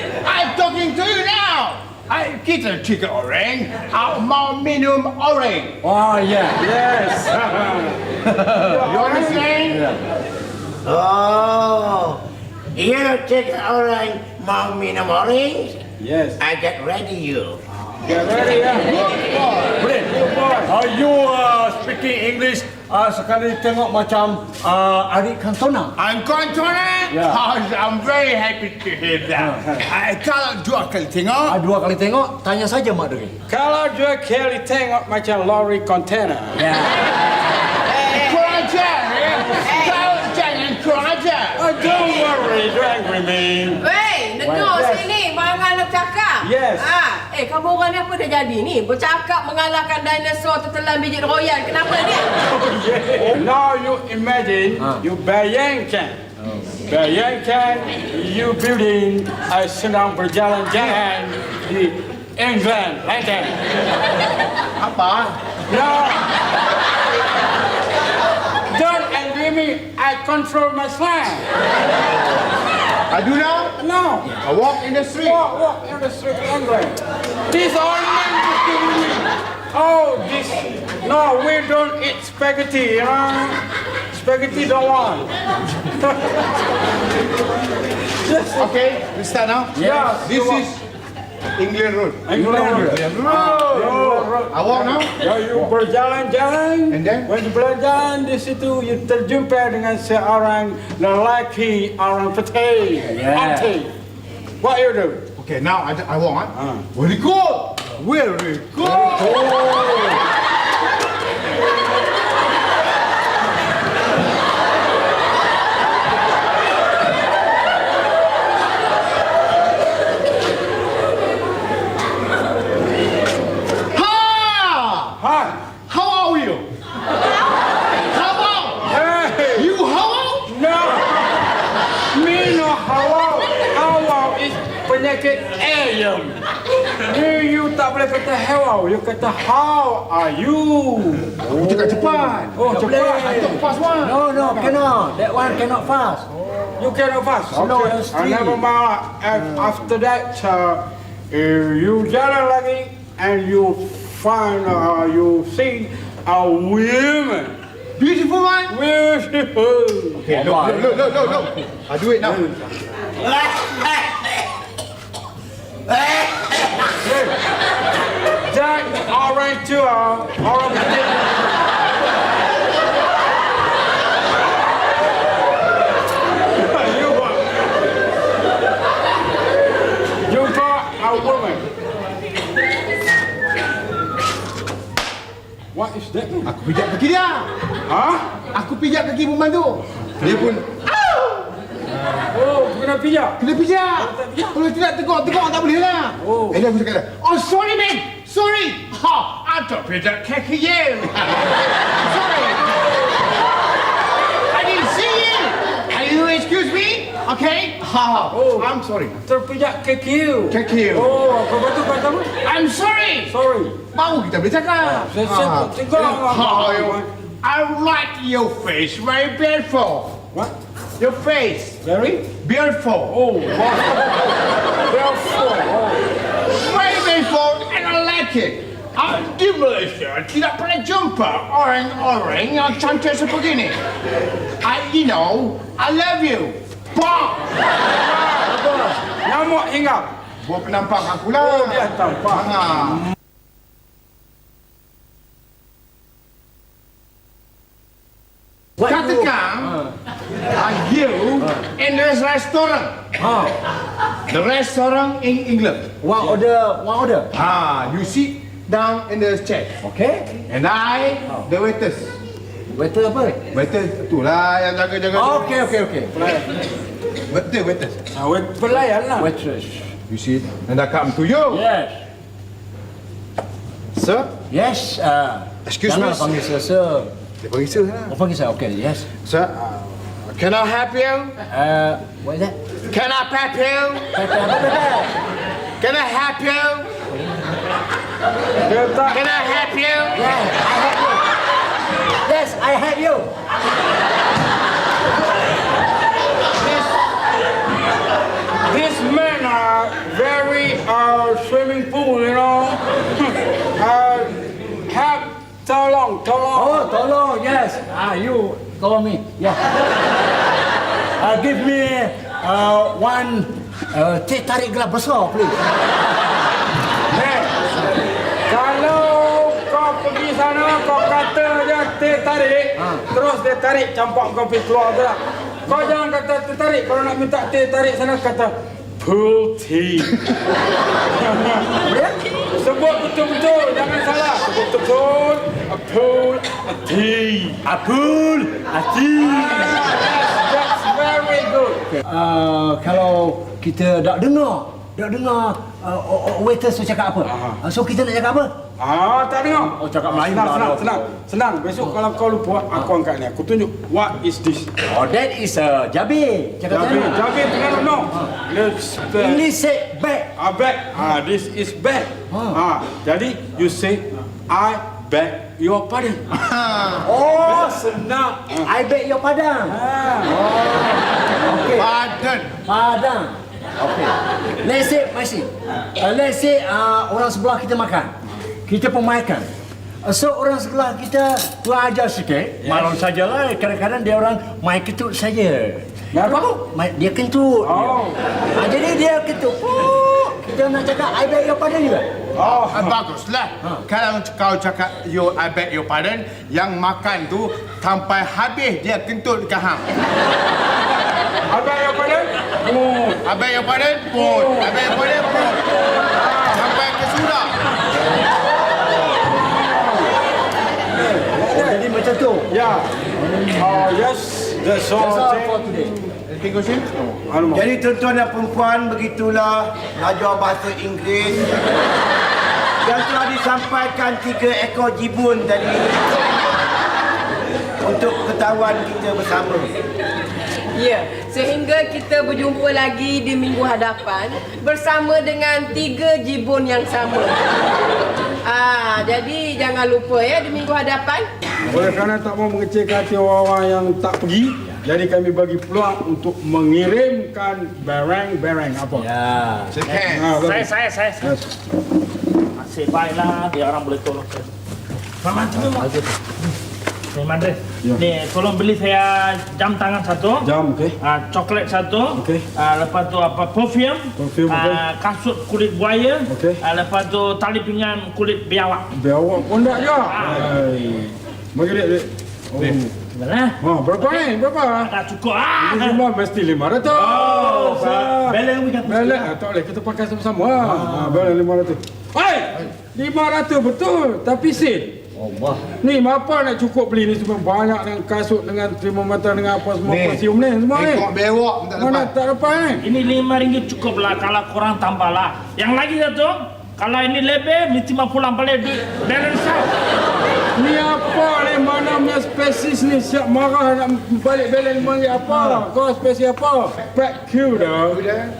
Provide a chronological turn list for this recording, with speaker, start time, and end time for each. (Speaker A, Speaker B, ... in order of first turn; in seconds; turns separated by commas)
Speaker A: 0.2-5.8, Speaker B: 5.8-6.6, Speaker C: 6.5-8.0, Speaker A: 8.5-9.8, Speaker C: 8.6-9.5, Speaker B: 9.7-10.0, Speaker D: 10.8-12.2, Speaker D: 12.8-15.8, Speaker C: 16.0-16.4, Speaker D: 16.4-17.6, Speaker C: 18.0-19.0, Speaker A: 18.9-19.8, Speaker C: 19.8-20.7, Speaker B: 20.6-25.9, Speaker A: 26.0-31.6, Speaker B: 27.1-27.4, Speaker B: 31.4-33.4, Speaker C: 33.5-36.6, Speaker B: 36.5-37.0, Speaker E: 37.9-38.6, Speaker A: 38.1-41.6, Speaker E: 39.6-40.2, Speaker C: 41.5-43.8, Speaker E: 43.8-52.4, Speaker B: 44.4-44.8, Speaker C: 44.6-45.1, Speaker C: 46.4-46.9, Speaker C: 52.5-56.2, Speaker B: 56.4-56.7, Speaker C: 56.8-63.5, Speaker A: 64.8-65.4, Speaker C: 65.7-66.3, Speaker C: 68.7-71.4, Speaker A: 73.1-73.8, Speaker C: 73.8-74.3, Speaker A: 74.4-75.4, Speaker C: 75.0-83.6, Speaker C: 84.1-86.5, Speaker C: 88.2-88.8, Speaker A: 88.6-90.8, Speaker B: 89.8-90.2, Speaker C: 89.8-90.7, Speaker A: 91.6-95.1, Speaker C: 92.3-103.9, Speaker B: 92.5-94.3, Speaker A: 96.9-97.3, Speaker B: 103.0-103.7, Speaker C: 104.6-105.2, Speaker A: 105.4-109.5, Speaker C: 106.5-106.8, Speaker B: 108.8-110.2, Speaker A: 123.9-125.2, Speaker C: 125.2-125.5, Speaker A: 125.9-126.6, Speaker A: 128.1-128.8, Speaker C: 128.8-129.7, Speaker A: 129.6-130.5, Speaker C: 130.5-131.4, Speaker C: 132.1-136.4, Speaker C: 137.0-141.8, Speaker A: 141.5-142.6, Speaker B: 141.6-146.3, Speaker C: 142.5-143.5, Speaker A: 143.2-144.2, Speaker C: 146.8-157.6, Speaker B: 147.5-148.6, Speaker A: 158.0-158.7, Speaker C: 158.7-160.4, Speaker A: 160.2-162.4, Speaker B: 160.3-161.7, Speaker D: 163.2-164.4, Speaker D: 165.9-166.4, Speaker C: 167.0-167.3, Speaker C: 168.5-171.3, Speaker C: 176.4-177.4, Speaker C: 180.3-181.7, Speaker C: 185.7-186.5, Speaker A: 186.4-187.5, Speaker C: 187.9-188.2, Speaker A: 188.5-191.4, Speaker C: 192.3-193.4, Speaker A: 193.4-202.8, Speaker C: 193.9-194.6, Speaker C: 196.2-196.6, Speaker A: 204.5-209.2, Speaker C: 208.3-208.7, Speaker C: 209.2-212.3, Speaker A: 210.5-211.1, Speaker A: 212.4-213.3, Speaker C: 213.3-213.8, Speaker A: 213.9-220.2, Speaker C: 214.8-217.1, Speaker A: 221.0-223.2, Speaker C: 221.8-222.4, Speaker C: 223.1-226.1, Speaker A: 226.5-233.8, Speaker A: 234.6-237.4, Speaker C: 237.9-238.5, Speaker B: 238.4-239.0, Speaker C: 239.2-240.1, Speaker A: 240.4-243.0, Speaker C: 241.4-242.5, Speaker B: 248.8-249.9, Speaker A: 248.8-249.8, Speaker A: 250.5-252.9, Speaker B: 253.2-253.5, Speaker A: 254.3-255.9, Speaker B: 256.0-257.3, Speaker A: 257.3-259.7, Speaker B: 259.8-260.4, Speaker A: 260.5-262.1, Speaker B: 262.8-263.5, Speaker A: 263.5-265.6, Speaker B: 265.1-266.1, Speaker C: 266.1-266.5, Speaker A: 267.3-268.0, Speaker C: 268.1-269.3, Speaker B: 269.2-269.9, Speaker A: 270.1-271.6, Speaker B: 271.5-272.0, Speaker A: 273.9-274.3, Speaker B: 274.5-277.1, Speaker A: 275.6-276.3, Speaker A: 277.4-278.1, Speaker B: 278.1-279.1, Speaker A: 279.2-279.7, Speaker A: 280.2-281.3, Speaker B: 281.5-282.6, Speaker A: 282.9-284.1, Speaker B: 284.1-285.1, Speaker A: 285.8-286.9, Speaker B: 287.1-287.5, Speaker C: 288.6-289.2, Speaker A: 289.1-290.2, Speaker B: 290.1-291.3, Speaker B: 292.2-293.3, Speaker C: 296.6-296.9, Speaker C: 298.7-306.9, Speaker B: 306.5-309.7, Speaker B: 311.2-315.6, Speaker C: 317.1-317.6, Speaker C: 318.5-330.3, Speaker B: 322.8-323.0, Speaker C: 331.2-331.8, Speaker B: 331.8-332.1, Speaker C: 332.5-337.6, Speaker B: 337.6-340.0, Speaker C: 339.3-342.0, Speaker B: 342.0-348.5, Speaker C: 347.2-347.6, Speaker C: 348.8-354.7, Speaker B: 349.5-351.1, Speaker B: 354.9-357.3, Speaker C: 356.7-359.4, Speaker B: 359.1-360.3, Speaker C: 360.4-366.2, Speaker B: 362.3-362.6, Speaker A: 366.3-367.1, Speaker B: 367.0-367.9, Speaker C: 367.1-368.7, Speaker B: 368.5-371.9, Speaker C: 369.7-370.3, Speaker A: 371.8-372.5, Speaker B: 372.6-378.1, Speaker B: 378.7-379.5, Speaker B: 380.0-392.1, Speaker C: 382.6-382.9, Speaker C: 386.1-386.5, Speaker C: 387.6-388.2, Speaker C: 392.4-393.0, Speaker A: 392.4-399.8, Speaker C: 401.5-403.2, Speaker A: 403.2-405.6, Speaker C: 404.1-406.7, Speaker A: 406.5-407.5, Speaker C: 409.4-410.2, Speaker C: 410.9-411.8, Speaker B: 411.4-412.5, Speaker C: 412.5-412.9, Speaker B: 413.2-413.6, Speaker C: 413.5-415.6, Speaker B: 414.9-416.0, Speaker A: 416.2-416.9, Speaker C: 417.3-417.6, Speaker D: 417.5-421.6, Speaker D: 422.8-426.2, Speaker D: 427.8-429.7, Speaker E: 430.8-437.5, Speaker E: 438.4-441.3, Speaker C: 441.6-449.1, Speaker B: 448.9-449.8, Speaker A: 449.7-450.3, Speaker C: 450.1-451.5, Speaker F: 450.2-451.3, Speaker F: 452.6-454.5, Speaker F: 455.2-455.9, Speaker B: 455.5-456.1, Speaker F: 457.1-460.4, Speaker C: 460.4-460.9, Speaker F: 461.0-468.8, Speaker C: 462.2-462.4, Speaker C: 464.2-464.8, Speaker C: 466.3-466.6, Speaker C: 468.9-472.9, Speaker F: 469.9-470.6, Speaker F: 473.1-476.0, Speaker C: 473.6-474.9, Speaker C: 475.6-485.0, Speaker B: 476.9-479.3, Speaker B: 480.6-481.3, Speaker B: 485.1-485.6, Speaker C: 485.8-491.1, Speaker A: 489.9-492.1, Speaker C: 491.7-492.8, Speaker F: 492.8-499.7, Speaker C: 500.6-508.0, Speaker B: 505.3-505.6, Speaker A: 507.6-508.3